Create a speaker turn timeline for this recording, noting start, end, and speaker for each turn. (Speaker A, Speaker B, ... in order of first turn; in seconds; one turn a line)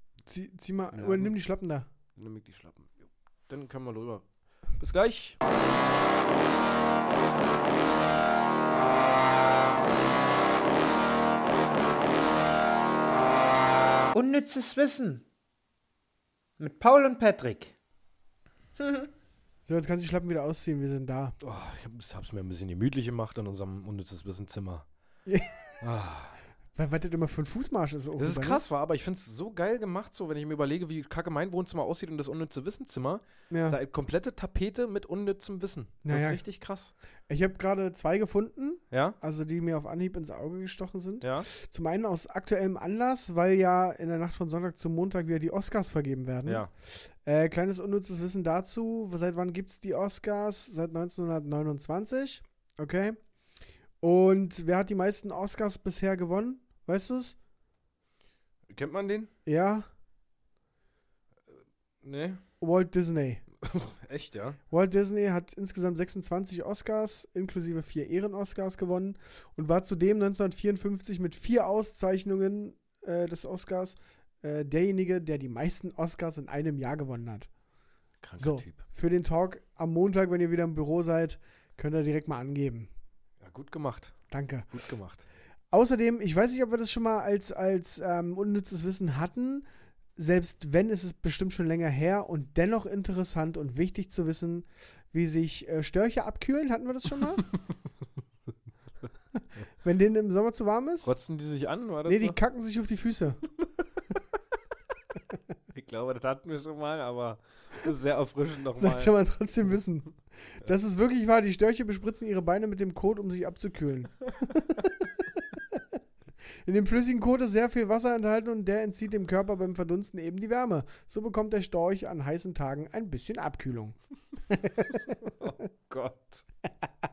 Speaker A: 0.2-1.9
Speaker B: 0.9-1.3
Speaker B: 2.1-4.2
Speaker B: 4.8-5.4
Speaker C: 14.1-15.2
Speaker C: 16.6-17.7
Speaker C: 18.8-19.1
Speaker A: 19.6-21.4
Speaker B: 21.4-24.9
Speaker A: 25.3-25.8
Speaker B: 25.8-26.4
Speaker A: 26.8-28.6
Speaker B: 28.2-36.9
Speaker A: 33.5-33.8
Speaker A: 36.0-36.4
Speaker A: 37.3-53.2
Speaker B: 38.9-39.2
Speaker B: 41.2-41.5
Speaker A: 54.0-57.4
Speaker B: 58.7-59.3
Speaker A: 59.5-59.9
Speaker B: 62.0-62.4
Speaker A: 62.6-63.4
Speaker B: 63.6-64.6
Speaker A: 64.7-77.5
Speaker B: 78.2-78.8
Speaker A: 78.4-82.9
Speaker B: 83.4-84.1
Speaker A: 84.3-84.7
Speaker B: 84.7-85.2
Speaker A: 85.7-97.5
Speaker A: 99.8-101.1
Speaker B: 101.0-102.4
Speaker A: 102.0-103.4
Speaker B: 105.7-109.1
Speaker A: 108.7-115.8
Speaker A: 116.7-124.0
Speaker A: 124.5-125.2
Speaker B: 125.1-126.4